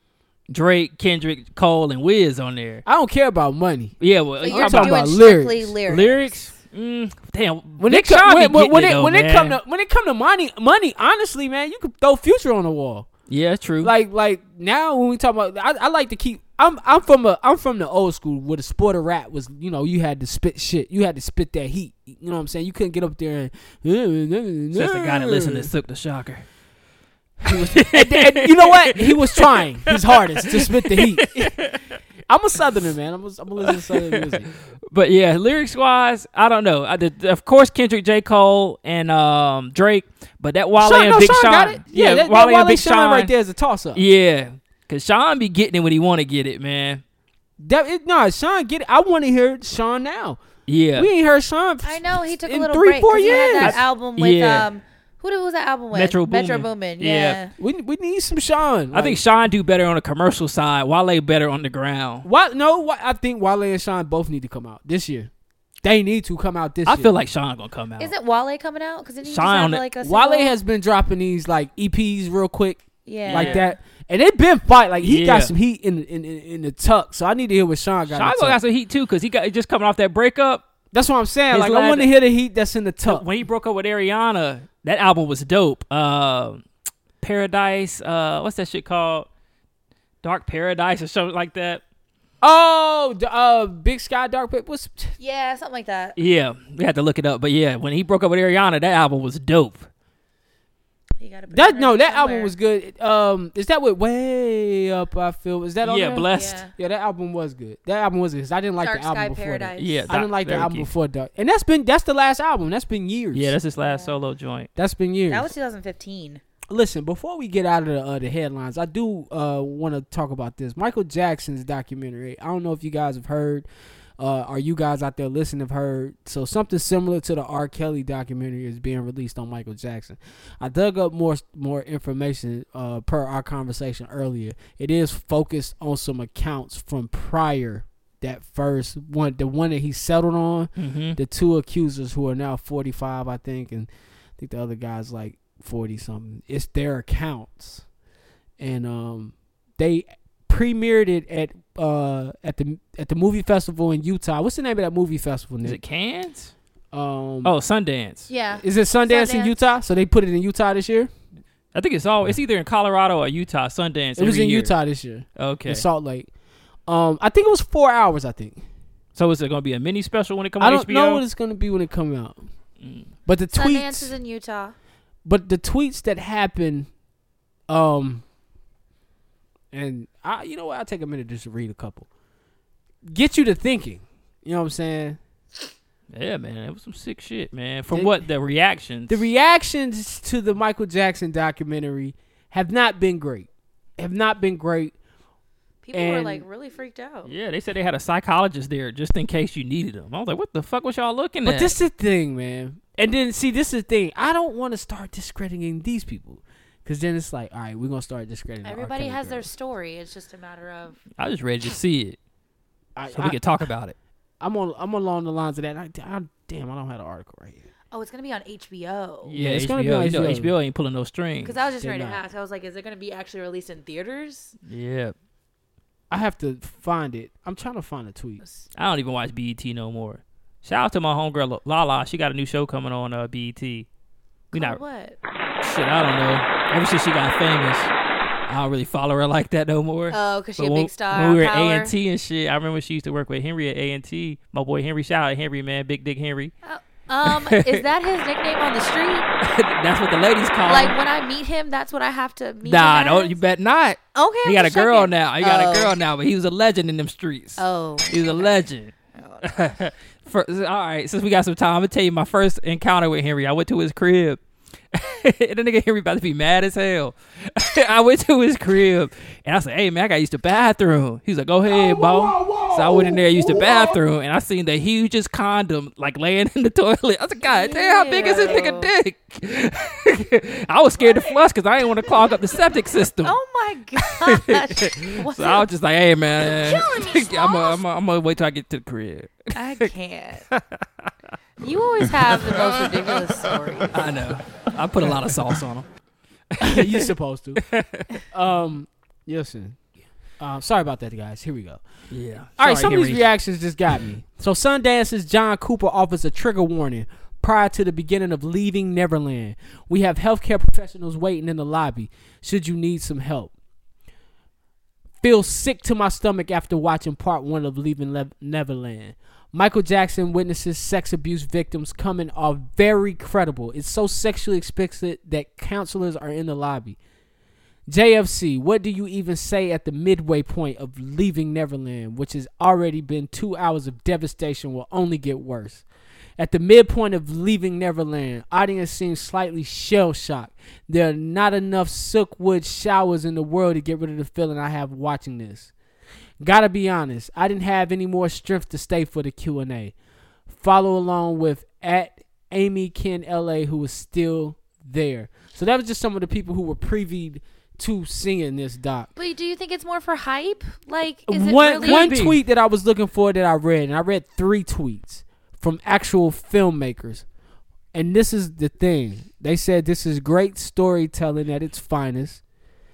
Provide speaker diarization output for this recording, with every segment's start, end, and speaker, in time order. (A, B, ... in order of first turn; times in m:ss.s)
0:00.5-0:02.8 A
0:02.8-0:03.9 B
0:04.0-0:05.1 A
0:04.4-0:06.3 C
0:04.4-0:05.7 B
0:05.9-0:09.6 A
0:07.8-0:13.1 B
0:13.3-0:13.9 A
0:13.8-0:25.7 B
0:24.7-0:26.4 A
0:27.4-0:31.7 B
0:27.4-0:31.8 A
0:32.3-0:34.5 B
0:33.7-0:34.4 A
0:34.9-0:43.3 A
0:40.8-0:44.0 B
0:43.9-0:47.0 A
0:47.6-0:50.4 B
0:50.7-0:51.1 A
0:50.9-0:53.8 B
0:51.8-0:57.5 C
0:53.5-0:54.7 A
0:55.9-0:57.4 A
0:57.6-0:59.2 B
0:58.9-1:02.3 A
1:02.2-1:05.3 B
1:05.8-1:07.1 B
1:06.8-1:08.1 A
1:08.0-1:10.5 C
1:09.2-1:09.8 A
1:10.0-1:18.6 B
1:13.0-1:13.8 C
1:13.3-1:13.6 A
1:15.0-1:15.5 A
1:18.1-1:20.7 A
1:20.9-1:23.2 B
1:21.5-1:22.1 A
1:23.0-1:26.6 A
1:27.2-1:29.3 A
1:30.2-1:31.8 A
1:32.4-1:35.1 B
1:35.2-1:36.2 C
1:36.2-1:39.9 A
1:41.2-1:42.5 C
1:41.5-1:53.6 B
1:45.8-1:46.6 A
1:46.3-1:46.7 C
1:48.8-1:50.1 C
1:49.8-1:50.9 A
1:53.3-1:54.7 A
1:53.8-1:54.2 C
1:54.8-1:55.5 B
1:55.3-1:56.4 C
1:56.7-2:03.7 B
2:04.2-2:27.8 B
2:20.8-2:21.2 A
2:28.6-2:35.8 B
2:35.6-2:36.5 A
2:36.9-2:37.5 B
2:37.4-2:38.3 A
2:38.3-2:39.6 C
2:38.6-2:41.1 B
2:41.7-2:44.7 A
2:44.2-2:46.3 B
2:45.4-2:45.8 A
2:46.9-2:48.6 B
2:49.2-2:51.2 A
2:50.6-2:52.4 B
2:52.8-2:53.1 A
2:53.2-2:54.1 B
2:53.5-2:54.8 C
2:55.2-2:56.9 B
2:57.7-2:58.2 B
2:59.7-3:02.1 B
3:03.1-3:05.2 B
3:06.1-3:09.3 A
3:07.9-3:08.2 B
3:09.1-3:14.9 B
3:15.8-3:17.3 C
3:15.9-3:16.4 B
3:17.2-3:21.7 A
3:21.4-3:29.5 B
3:28.6-3:31.0 C
3:31.2-3:32.2 A
3:33.0-3:33.4 B
3:33.1-3:33.9 A
3:34.4-3:37.6 B
3:37.9-3:39.3 C
3:39.2-3:41.6 A
3:39.4-3:40.5 B
3:41.4-3:44.5 C
3:41.8-3:42.2 B
3:44.7-3:45.1 A
3:46.1-3:48.4 B
3:48.8-3:53.9 A
3:54.5-3:55.2 C
3:54.5-3:54.8 A
3:55.6-3:57.9 A
3:58.5-4:06.5 A
4:00.1-4:01.9 C
4:06.6-4:09.3 C
4:07.2-4:07.8 A
4:09.4-4:11.0 A
4:10.6-4:13.4 C
4:12.6-4:18.9 A
4:14.1-4:15.9 C
4:17.6-4:18.6 C
4:19.1-4:19.5 C
4:19.4-4:24.4 A
4:24.9-4:43.4 A
4:37.5-4:38.9 C
4:43.2-4:45.6 C
4:44.0-4:49.9 A
4:46.4-4:47.8 C
4:49.5-4:50.5 C
4:50.5-4:51.1 A
4:51.6-4:54.0 C
4:52.0-4:52.9 A
4:53.9-4:55.9 A
4:56.6-4:57.1 A
4:56.6-4:57.6 B
4:57.6-4:58.1 A
4:58.3-4:59.8 B
5:00.4-5:01.8 B
5:02.1-5:03.3 A
5:02.6-5:13.5 B
5:15.2-5:27.0 B
5:27.9-5:35.8 B
5:36.4-5:45.7 B
5:46.4-5:49.9 B
5:50.5-5:59.1 B
5:59.2-6:02.1 C
6:01.3-6:07.2 B
6:01.8-6:02.4 A
6:07.9-6:12.4 B